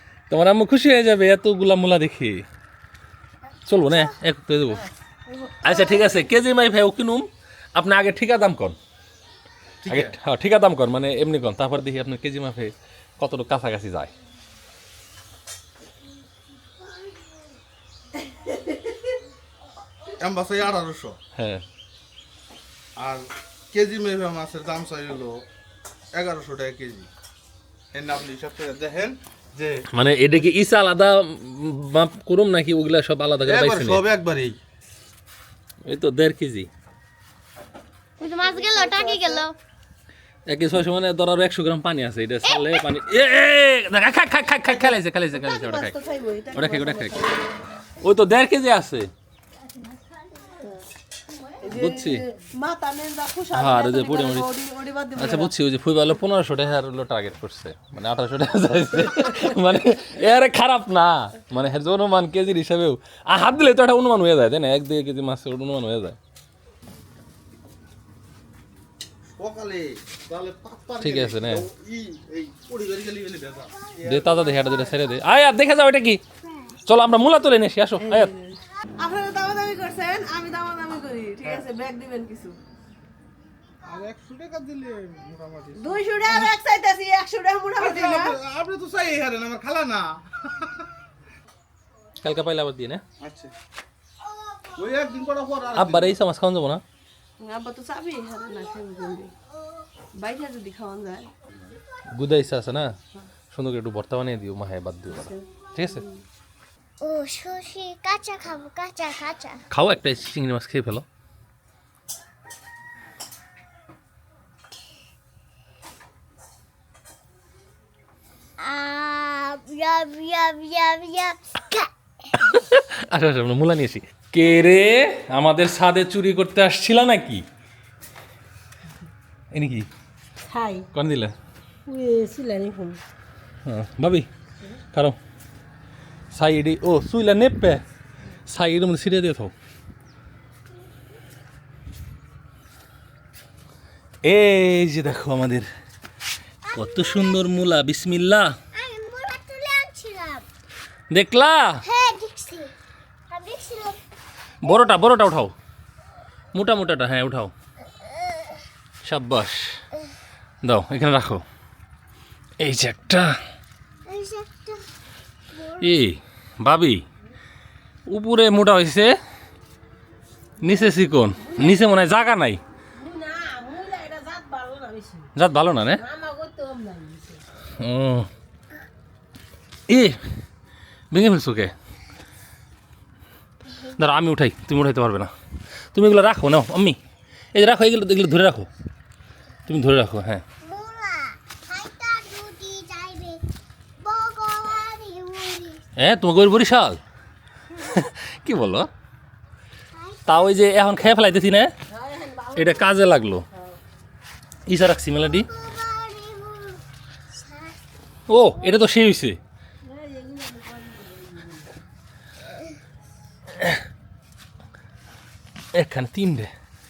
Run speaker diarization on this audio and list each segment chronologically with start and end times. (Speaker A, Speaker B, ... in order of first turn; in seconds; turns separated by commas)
Speaker A: 0.3-2.4, Speaker A: 3.6-4.8, Speaker B: 5.3-6.1, Speaker A: 5.6-8.8, Speaker C: 9.8-10.2, Speaker A: 9.9-14.1, Speaker C: 20.2-21.2, Speaker A: 21.3-21.6, Speaker C: 23.0-25.4, Speaker C: 26.1-27.1, Speaker C: 27.9-29.8, Speaker A: 29.9-34.0, Speaker C: 33.4-34.6, Speaker A: 35.8-36.7, Speaker D: 38.2-39.5, Speaker B: 38.6-39.4, Speaker A: 40.5-46.0, Speaker D: 44.7-47.5, Speaker A: 46.5-47.2, Speaker A: 48.0-49.1, Speaker D: 51.5-55.5, Speaker A: 51.7-52.2, Speaker A: 53.5-54.5, Speaker A: 55.2-66.2, Speaker C: 69.4-75.0, Speaker A: 71.0-71.7, Speaker A: 74.0-76.2, Speaker A: 76.8-78.3, Speaker D: 78.0-82.6, Speaker C: 83.8-86.5, Speaker D: 85.8-88.4, Speaker C: 87.8-90.7, Speaker A: 92.2-93.0, Speaker C: 93.2-93.5, Speaker B: 94.2-95.3, Speaker C: 94.8-96.1, Speaker A: 95.8-96.8, Speaker D: 97.4-99.3, Speaker B: 98.5-98.9, Speaker B: 99.5-99.9, Speaker D: 100.1-101.3, Speaker A: 102.1-102.9, Speaker A: 103.5-106.0, Speaker D: 106.0-106.2, Speaker B: 107.0-109.6, Speaker A: 109.7-111.0, Speaker B: 118.6-121.9, Speaker A: 122.4-127.4, Speaker A: 129.5-129.9, Speaker D: 130.5-130.7, Speaker A: 130.9-131.3, Speaker D: 131.9-132.9, Speaker A: 133.7-134.3, Speaker A: 134.9-135.2, Speaker A: 136.3-137.8, Speaker A: 138.5-139.5, Speaker A: 144.2-145.7, Speaker B: 146.7-147.5, Speaker A: 146.7-148.6, Speaker B: 148.7-150.4, Speaker A: 151.1-151.8, Speaker B: 151.8-152.7, Speaker B: 153.3-154.0, Speaker A: 154.6-155.5, Speaker B: 154.6-155.0, Speaker A: 156.5-157.5, Speaker B: 158.0-158.6, Speaker A: 159.0-159.8, Speaker A: 160.6-161.4, Speaker A: 162.6-163.4, Speaker B: 164.1-164.9, Speaker B: 165.5-166.0, Speaker A: 165.8-167.0, Speaker A: 168.1-169.2, Speaker A: 170.6-172.6, Speaker D: 171.4-171.8, Speaker D: 173.0-175.3, Speaker A: 175.3-176.1, Speaker D: 175.9-177.4, Speaker A: 177.7-178.3, Speaker A: 179.9-180.2, Speaker A: 181.1-181.7, Speaker B: 183.7-184.1, Speaker A: 184.0-185.3, Speaker A: 185.9-187.0, Speaker A: 187.5-188.7, Speaker A: 189.7-190.4, Speaker B: 190.6-193.5, Speaker B: 194.0-195.8, Speaker A: 196.0-197.0, Speaker A: 197.7-198.9, Speaker B: 199.9-200.7, Speaker A: 200.3-201.7, Speaker D: 202.0-202.5, Speaker A: 202.5-203.4, Speaker A: 204.7-205.5, Speaker B: 205.2-207.8, Speaker A: 208.3-209.4, Speaker B: 208.6-208.8, Speaker D: 209.9-211.7, Speaker A: 215.7-216.5